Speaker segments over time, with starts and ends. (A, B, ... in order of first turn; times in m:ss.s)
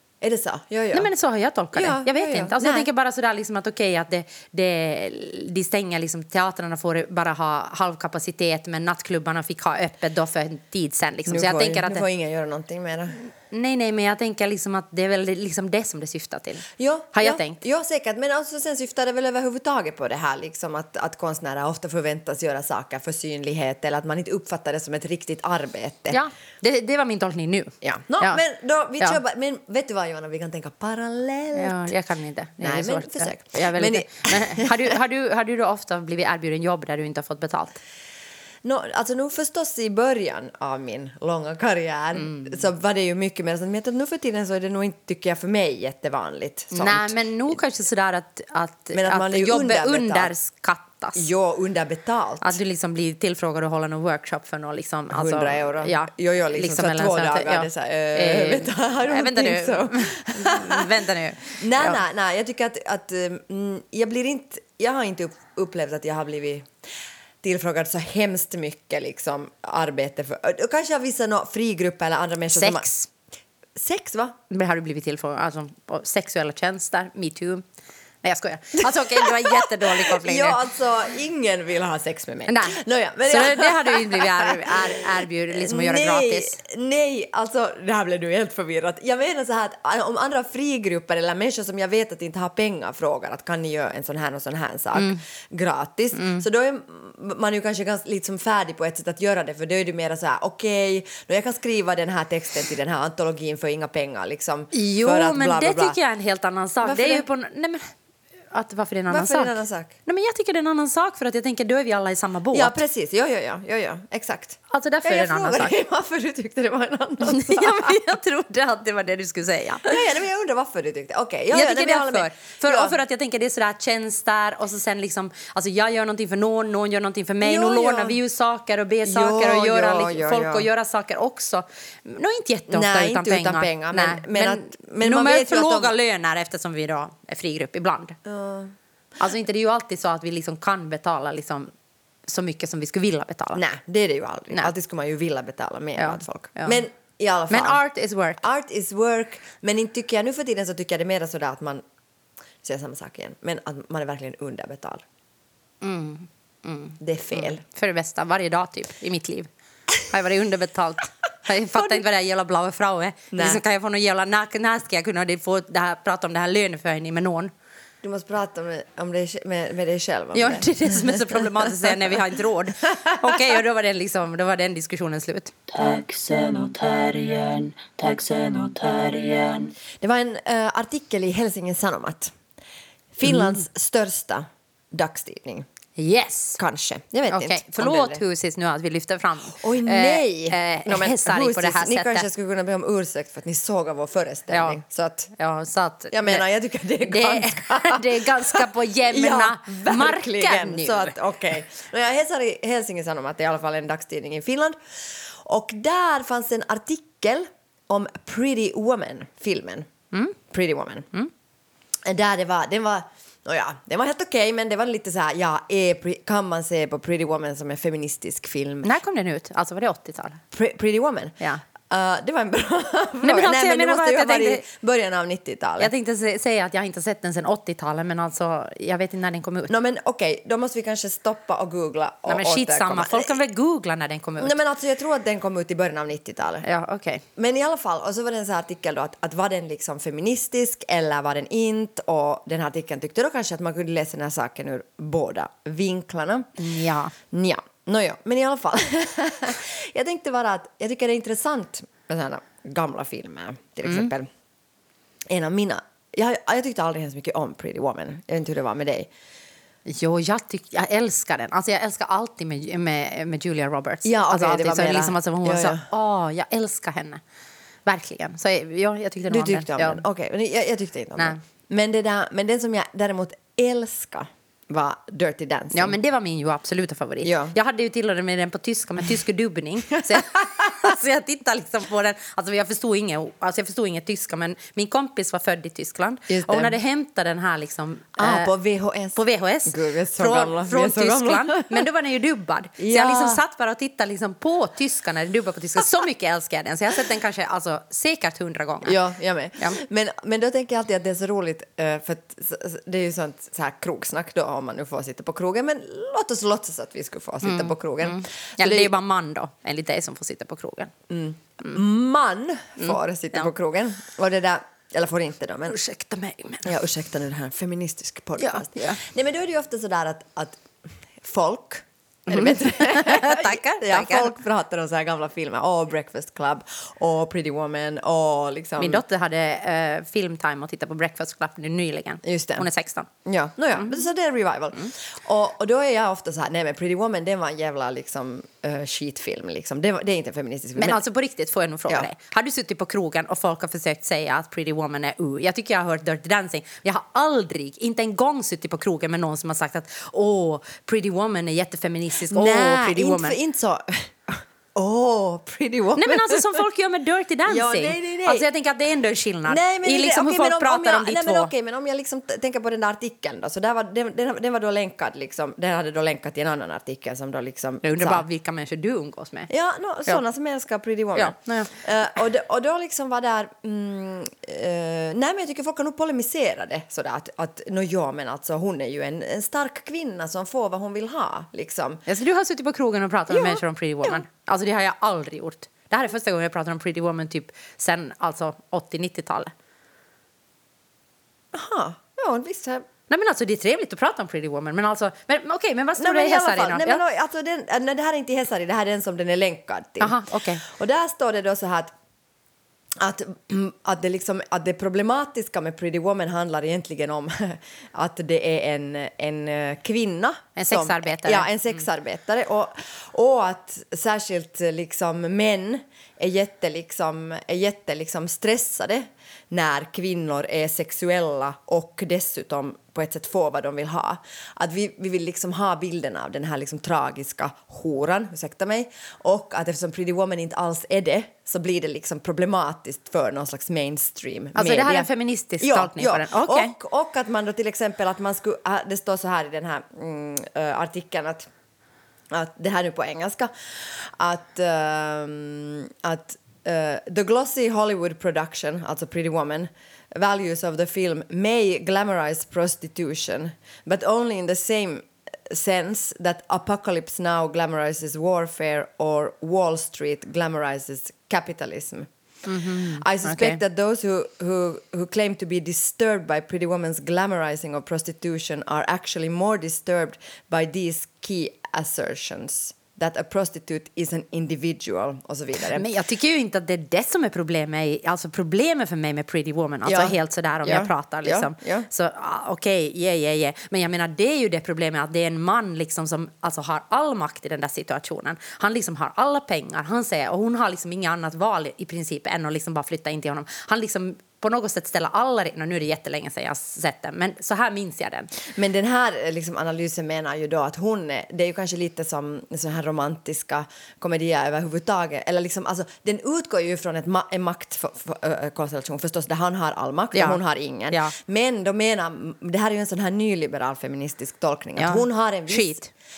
0:00.2-0:01.1 A
0:00.9-0:12.0 B
0:01.7-0:02.9 A
0:11.3-0:13.2 A
0:13.5-0:17.6 B
0:16.8-0:26.2 A
0:26.1-0:28.4 B
0:27.8-0:31.9 A
0:31.5-0:37.8 B
0:32.6-0:34.9 A
0:38.6-0:47.2 A
0:42.2-0:42.6 B
0:46.7-0:51.2 B
0:48.9-0:50.3 A
0:51.2-0:52.6 A
0:52.4-1:02.0 B
0:55.1-1:00.9 A
1:01.6-1:06.7 A
1:07.4-1:12.9 A
1:12.5-1:13.1 B
1:13.8-1:14.4 A
1:14.5-1:17.6 B
1:18.2-1:20.6 B
1:18.8-1:46.0 A
1:22.5-1:26.6 B
1:34.9-1:35.2 B
1:36.1-1:36.4 B
1:44.7-1:47.9 B
1:46.8-1:47.3 A
1:48.5-1:49.5 B
1:49.1-1:49.9 A
1:50.0-1:52.8 B
1:52.5-1:58.0 A
1:54.7-1:55.7 B
1:57.2-2:00.0 B
1:59.8-2:03.0 A
2:01.5-2:18.2 B
2:07.4-2:08.2 A
2:09.0-2:10.7 A
2:12.7-2:15.9 A
2:18.2-2:18.7 A
2:19.2-2:21.7 B
2:22.3-2:23.6 B
2:23.5-2:27.8 A
2:26.0-2:26.8 B
2:27.5-2:28.4 B
2:28.4-2:31.8 A
2:32.6-2:35.0 A
2:35.8-2:39.5 B
2:37.0-2:37.6 A
2:40.0-2:47.5 B
2:41.7-2:42.0 A
2:43.3-2:43.6 A
2:48.0-2:52.2 A
2:50.3-2:55.5 B
2:52.9-2:53.6 A
2:55.7-2:59.7 C
3:00.0-3:02.3 A
3:03.1-3:05.6 A
3:06.0-3:06.6 B
3:06.6-3:08.2 A
3:07.3-3:12.3 B
3:09.5-3:15.3 A
3:14.5-3:14.8 B
3:15.4-3:16.4 B
3:16.1-3:29.9 A
3:17.0-3:21.1 B
3:30.5-3:31.1 A
3:32.0-3:38.9 A
3:38.8-3:40.4 B
3:40.5-3:45.9 A
3:43.2-3:44.6 B
3:45.8-3:49.7 B
3:49.7-3:53.3 A
3:52.2-3:54.6 B
3:54.4-3:56.6 A
3:56.6-3:57.2 B
3:57.4-4:06.6 A
4:06.6-4:07.1 B
4:07.3-4:14.3 A
4:13.8-4:14.1 B
4:15.3-4:19.1 A
4:19.8-4:27.2 B
4:24.0-4:25.9 A
4:27.8-4:30.0 B
4:29.3-4:36.0 A
4:35.7-4:48.5 B
4:37.2-4:37.6 A
4:40.0-4:40.9 A
4:46.3-4:46.7 A
4:48.2-4:51.8 A
4:49.1-4:59.0 B
4:52.8-4:53.4 A
4:58.8-5:08.9 A
5:07.4-5:10.9 B
5:11.1-5:15.8 A
5:12.8-5:13.5 B
5:15.7-5:16.7 B
5:16.6-5:29.0 A
5:18.4-5:19.0 B
5:22.3-5:24.3 B
5:28.8-5:33.1 B
5:32.2-5:32.7 A
5:33.2-5:41.0 A
5:40.8-5:53.4 B
5:52.2-5:56.6 A
5:56.0-6:01.5 B
5:57.5-5:58.5 A
5:59.5-6:08.2 A
6:07.8-6:09.5 B
6:09.5-6:22.0 A
6:11.2-6:11.7 B
6:22.1-6:29.5 B
6:23.3-6:24.2 A
6:31.5-6:32.9 A
6:33.1-6:37.0 B
6:36.0-6:41.9 A
6:40.0-6:40.6 B
6:43.0-7:15.1 A
6:50.6-6:51.5 B
7:14.5-7:16.7 B
7:15.6-7:21.5 A
7:22.3-7:42.1 A
7:42.4-7:43.6 B
7:42.7-7:55.8 A
7:55.7-8:18.3 B
7:59.8-8:01.9 A
8:18.5-8:35.8 A
8:30.1-8:30.4 B
8:34.8-8:35.9 B